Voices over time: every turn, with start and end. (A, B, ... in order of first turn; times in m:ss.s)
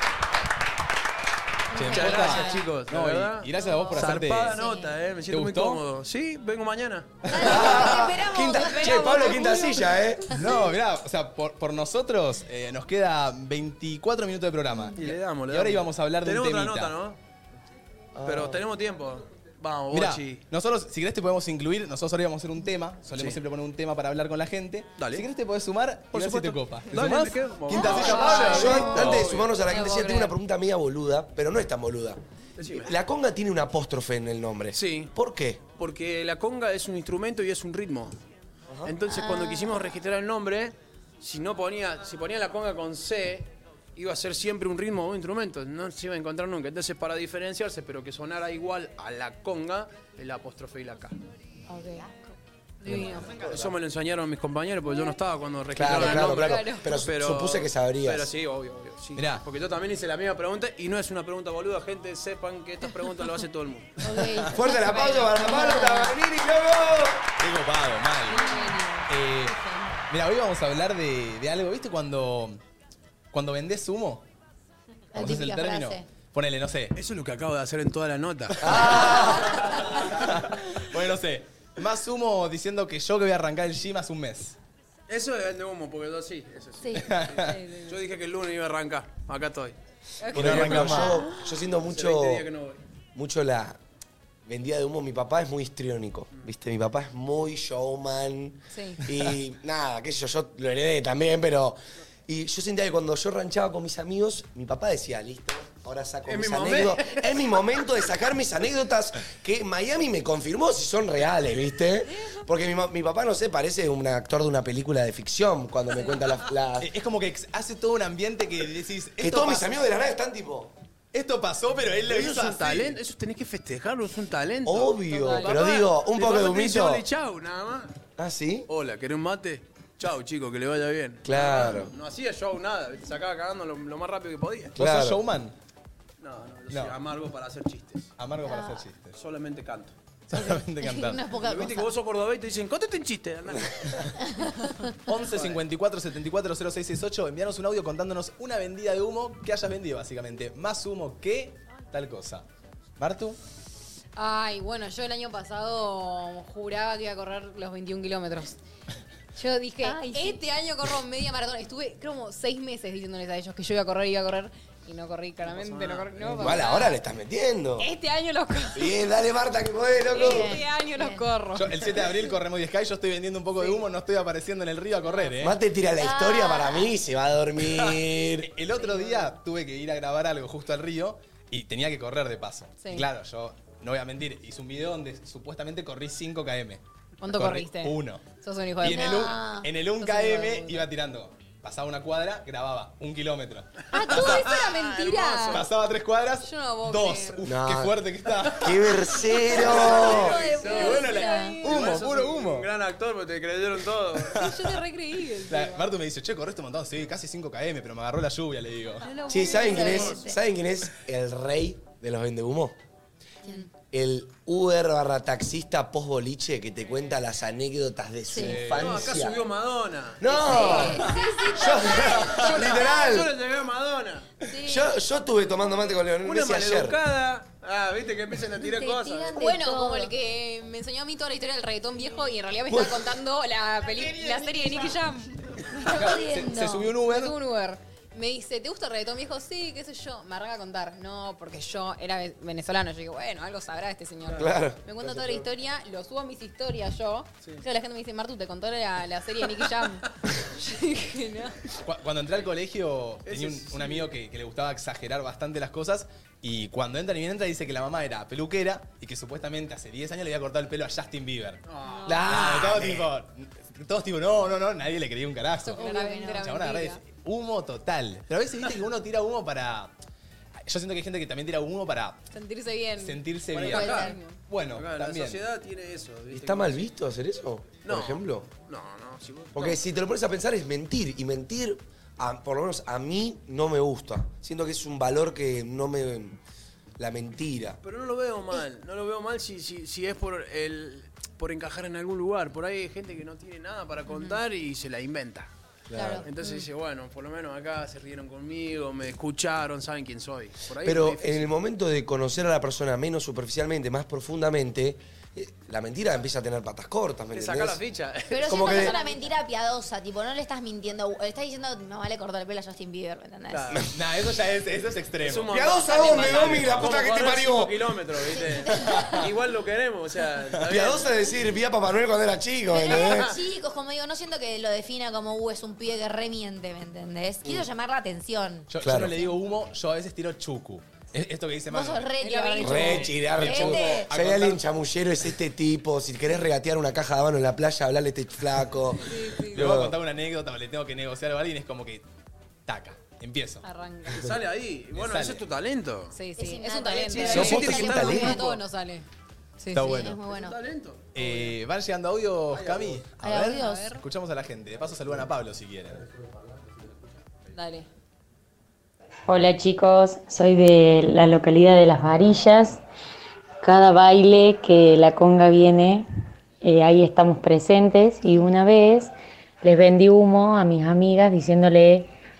0:01.7-0:02.6 A
0:01.7-0:04.6 B
0:01.9-0:07.2 C
0:03.6-0:04.9 D
0:05.3-0:05.8 B
0:07.3-0:07.7 B
0:07.3-0:09.9 D
0:07.3-0:10.3 E
0:08.4-0:09.6 A
0:10.3-0:16.9 B
0:15.0-0:17.2 C
0:18.2-0:18.6 E
0:18.2-0:20.4 C
0:19.9-0:29.3 B
0:23.1-0:23.4 C
0:25.0-0:25.2 C
0:26.1-0:29.5 C
0:27.8-0:29.0 A
0:27.9-0:28.7 D
0:28.2-0:35.6 E
0:29.7-0:30.3 A
0:32.6-0:32.9 C
0:34.7-0:35.1 C
0:35.8-0:38.2 C
0:38.7-0:38.9 E
0:38.8-0:51.2 C
0:39.0-0:39.8 D
0:51.7-0:52.1 D
0:52.8-0:53.3 A
0:52.9-0:53.2 D
0:53.4-1:03.9 C
0:53.4-0:53.7 E
0:55.7-0:58.3 E
0:55.9-0:56.8 A
0:59.1-0:59.4 B
1:04.0-1:06.2 D
1:04.5-1:07.2 E
1:04.7-1:05.8 A
1:07.4-1:08.5 B
1:08.3-1:09.9 A
1:08.3-1:08.7 D
1:09.1-1:09.6 B
1:10.1-1:12.6 B
1:13.3-1:14.2 B
1:15.1-1:16.0 D
1:15.1-1:16.9 B
1:16.9-1:18.8 C
1:18.6-1:24.6 B
1:18.6-1:19.5 E
1:25.1-1:29.8 C
1:26.8-1:27.1 D
1:27.0-1:27.5 B
1:27.4-1:28.0 A
1:30.2-1:31.2 A
1:30.3-1:31.0 C
1:30.3-1:32.5 E
1:30.3-1:31.1 B
1:31.8-1:32.8 C
1:33.1-1:33.8 E
1:34.4-1:56.9 E
1:38.7-1:39.0 A
1:46.3-1:47.4 C
1:56.8-1:59.8 B
1:59.2-2:00.7 E
2:01.1-2:03.0 B
2:02.0-2:07.9 C
2:04.6-2:07.0 E
2:05.1-2:05.6 A
2:08.2-2:08.7 E
2:08.7-2:14.8 C
2:11.2-2:11.9 E
2:14.8-2:15.2 E
2:14.8-2:15.5 B
2:16.2-2:18.1 C
2:16.7-2:17.0 B
2:18.2-2:19.2 B
2:18.4-2:18.8 D
2:19.0-2:19.9 C
2:20.3-2:21.3 B
2:20.3-2:21.9 D
2:21.4-2:24.0 C
2:25.1-2:32.4 B
2:25.2-2:25.6 C
2:33.0-2:33.4 B
2:34.2-2:38.6 A
2:39.4-2:46.9 A
2:39.8-2:40.4 D
2:45.4-2:46.6 C
2:46.4-2:47.9 E
2:47.8-2:48.9 A
2:48.7-2:50.6 E
2:50.1-2:52.1 A
2:50.1-2:51.2 D
2:51.5-2:55.6 B
2:55.4-2:58.5 E
2:56.0-2:56.9 D
2:57.7-3:06.8 B
2:58.8-2:59.2 D
3:02.8-3:03.1 A
3:07.2-3:09.3 A
3:07.3-3:08.2 B
3:08.8-3:14.4 B
3:08.8-3:09.7 D
3:10.0-3:10.8 A
3:13.9-3:15.6 A
3:14.2-3:15.7 C
3:15.5-3:19.0 B
3:16.4-3:17.4 A
3:17.4-3:18.0 E
3:18.5-3:20.4 E
3:19.3-3:21.7 A
3:19.7-3:24.4 C
3:19.8-3:21.6 D
3:20.7-3:22.7 B
3:24.3-3:25.9 A
3:24.3-3:24.8 B
3:25.4-3:29.1 B
3:29.0-3:30.2 A
3:29.2-3:30.3 D
3:29.3-3:32.8 E
3:29.8-3:30.1 C
3:33.9-3:39.4 E
3:38.3-3:38.6 D
3:38.4-3:39.2 B
3:38.7-3:40.8 C
3:40.2-3:43.3 E
3:40.3-3:41.7 D
3:40.5-3:42.9 A
3:42.5-3:44.3 C
3:42.7-3:43.2 D
3:44.5-3:44.8 D
3:44.6-3:47.0 E
3:46.2-3:49.4 C
3:48.6-3:50.1 D
3:49.4-3:56.1 A
3:52.7-3:53.1 E
3:55.8-3:56.9 D
3:55.8-3:57.4 B
3:57.0-4:10.1 A
4:04.3-4:04.5 C
4:04.3-4:05.4 E
4:10.6-4:11.6 A
4:11.8-4:25.8 B
4:13.2-4:14.1 C
4:21.6-4:22.4 C
4:22.1-4:23.1 E
4:25.6-4:27.0 A
4:25.8-4:26.4 D
4:26.4-4:29.9 B
4:30.6-4:32.2 B
4:32.3-4:34.4 A
4:33.0-4:35.4 B
4:33.5-4:34.1 C
4:33.7-4:34.1 D
4:34.7-4:36.9 C
4:36.3-4:38.5 E
4:37.8-4:39.8 C
4:39.5-4:46.4 E
4:47.0-4:47.8 E
4:47.8-4:55.5 C
4:55.9-4:56.2 E
4:55.9-4:56.5 D
4:56.2-5:01.5 C
5:00.8-5:07.8 E
5:07.3-5:08.9 C
5:08.3-5:13.8 D
5:08.4-5:09.0 E
5:13.5-5:13.8 C
5:13.9-5:17.0 B
5:15.2-5:21.2 C
5:15.5-5:18.3 E
5:18.3-5:19.3 D
5:20.6-5:23.3 E
5:22.7-5:28.6 D
5:22.8-5:23.4 C
5:28.7-5:32.1 B
5:28.8-5:29.2 E
5:31.7-5:34.1 D
5:32.2-5:33.1 A
5:32.6-5:39.9 E
5:33.2-5:34.6 B
5:39.0-5:39.7 A
5:39.5-5:42.0 B
5:42.7-5:43.6 B
5:43.6-5:44.2 A
5:44.1-5:46.2 C
5:44.9-5:45.4 B
5:46.1-5:49.0 A
5:46.4-5:48.5 D
5:46.9-5:48.6 C
5:47.3-5:48.4 E
5:49.6-5:50.0 A
5:49.7-5:50.2 B
5:49.8-5:50.6 D
5:50.2-5:51.1 C
5:51.1-5:56.0 B
5:52.5-5:53.0 C
5:53.2-5:53.9 D
5:53.5-5:54.0 A
5:57.5-5:57.9 A
5:59.3-6:02.8 F
6:03.6-6:06.1 F
6:06.6-6:12.1 F